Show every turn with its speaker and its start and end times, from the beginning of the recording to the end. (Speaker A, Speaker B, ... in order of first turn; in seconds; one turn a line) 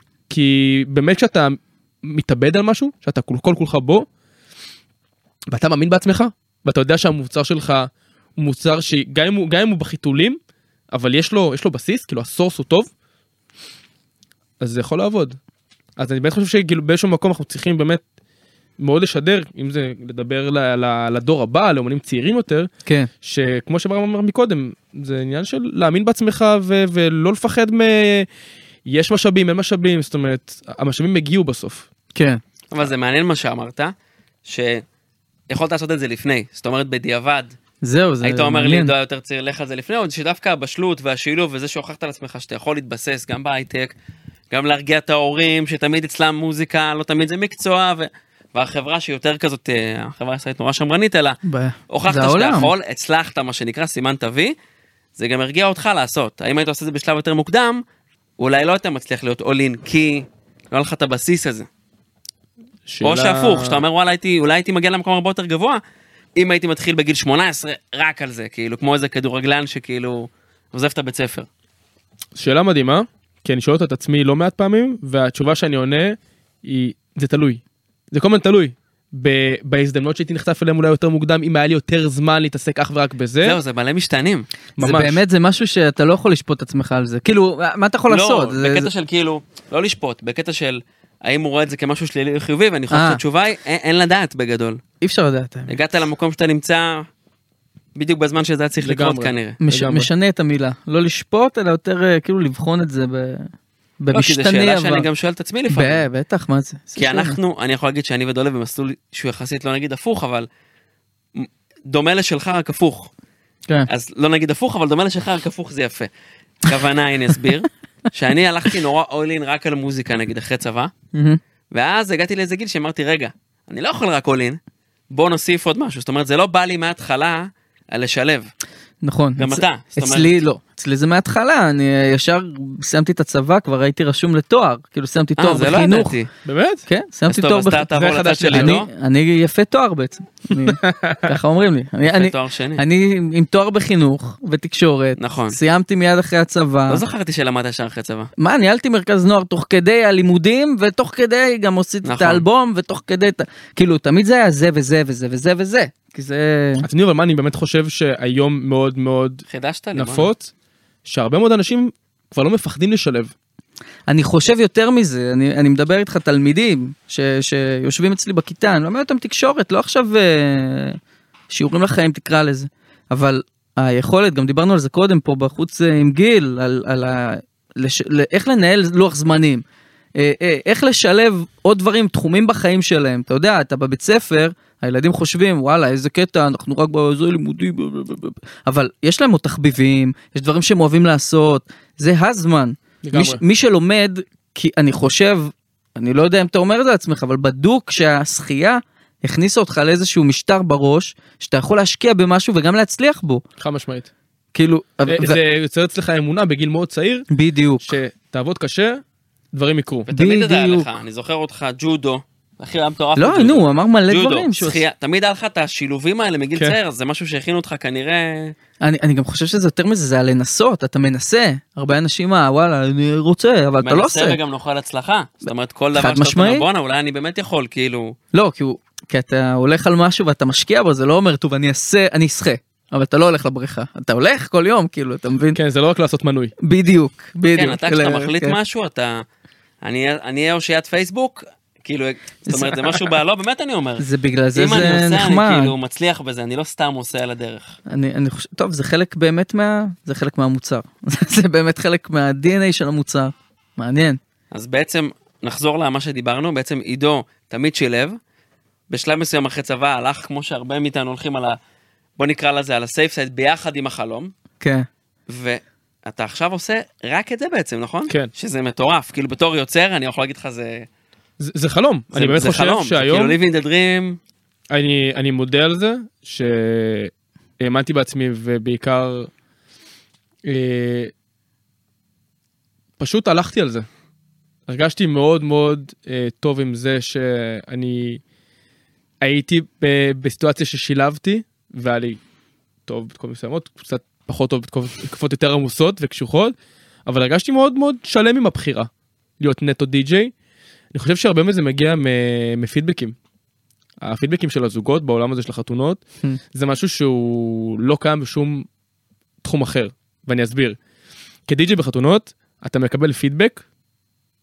Speaker A: 0.3-4.1
Speaker A: 5.5-10.4
Speaker A: 10.9-12.9
Speaker A: 14.6-15.4
Speaker A: 16.0-18.0
Speaker A: 18.8-22.7
Speaker A: 23.2-28.3
Speaker A: 28.9-31.9
Speaker B: 32.1-32.4
Speaker C: 32.7-33.9
Speaker C: 34.5-34.8
Speaker C: 35.5-37.5
Speaker B: 37.8-38.9
Speaker C: 38.2-43.9
Speaker C: 44.5-51.4
Speaker B: 51.4-52.7
Speaker C: 51.9-54.5
Speaker C: 55.2-57.8
Speaker C: 58.4-61.7
Speaker A: 62.9-63.8
Speaker C: 63.0-65.8
Speaker C: 66.3-71.5
Speaker A: 72.3-83.6
Speaker C: 83.4-84.5
Speaker A: 84.8-85.2
Speaker B: 84.8-88.9
Speaker C: 88.1-94.8
Speaker B: 92.9-93.2
Speaker B: 95.0-95.8
Speaker C: 95.7-97.1
Speaker C: 98.0-99.6
Speaker A: 98.8-100.1
Speaker B: 99.6-103.5
Speaker B: 104.0-105.0
Speaker C: 104.1-106.0
Speaker B: 105.7-107.4
Speaker C: 107.0-110.5
Speaker C: 111.3-113.1
Speaker C: 113.9-116.1
Speaker C: 116.6-120.9
Speaker B: 121.1-121.4
Speaker C: 121.7-124.6
Speaker C: 125.1-128.5
Speaker B: 129.0-136.2
Speaker C: 129.4-130.4
Speaker C: 135.4-136.3
Speaker A: 136.4-136.8
Speaker B: 136.9-137.9
Speaker C: 137.3-138.9
Speaker A: 137.9-138.8
Speaker B: 138.5-147.0
Speaker A: 140.6-141.3
Speaker C: 142.1-142.8
Speaker C: 145.2-145.6
Speaker C: 146.9-148.3
Speaker B: 148.4-156.9
Speaker C: 152.0-152.4
Speaker A: 156.8-160.5
Speaker C: 159.5-160.3
Speaker A: 161.0-163.3
Speaker B: 164.1-171.0
Speaker B: 171.5-179.6
Speaker B: 180.2-203.4
Speaker A: 193.0-193.4
Speaker A: 203.6-204.1
Speaker B: 204.5-205.4
Speaker A: 205.1-207.3
Speaker B: 207.3-207.9
Speaker A: 207.8-210.1
Speaker C: 210.1-218.5
Speaker B: 210.1-210.9
Speaker B: 213.2-214.8
Speaker B: 218.8-224.4
Speaker C: 223.8-228.2
Speaker B: 225.9-226.7
Speaker B: 228.3-235.6
Speaker A: 235.5-236.5
Speaker B: 236.6-238.6
Speaker C: 237.5-239.2
Speaker C: 239.8-247.7
Speaker B: 242.5-243.1
Speaker B: 244.0-245.7
Speaker B: 247.9-254.2
Speaker C: 254.5-258.2
Speaker C: 258.9-261.6
Speaker C: 262.2-264.3
Speaker B: 264.6-264.9
Speaker C: 265.3-270.9
Speaker A: 271.4-273.4
Speaker C: 272.1-274.2
Speaker A: 274.7-279.3
Speaker A: 280.4-281.1
Speaker A: 283.0-283.9
Speaker A: 284.7-288.2
Speaker A: 289.2-292.2
Speaker A: 292.9-296.5
Speaker A: 297.1-298.9
Speaker A: 299.4-300.3
Speaker A: 300.9-303.1
Speaker A: 304.0-306.0
Speaker A: 306.5-308.7
Speaker A: 309.4-310.8
Speaker A: 311.5-313.6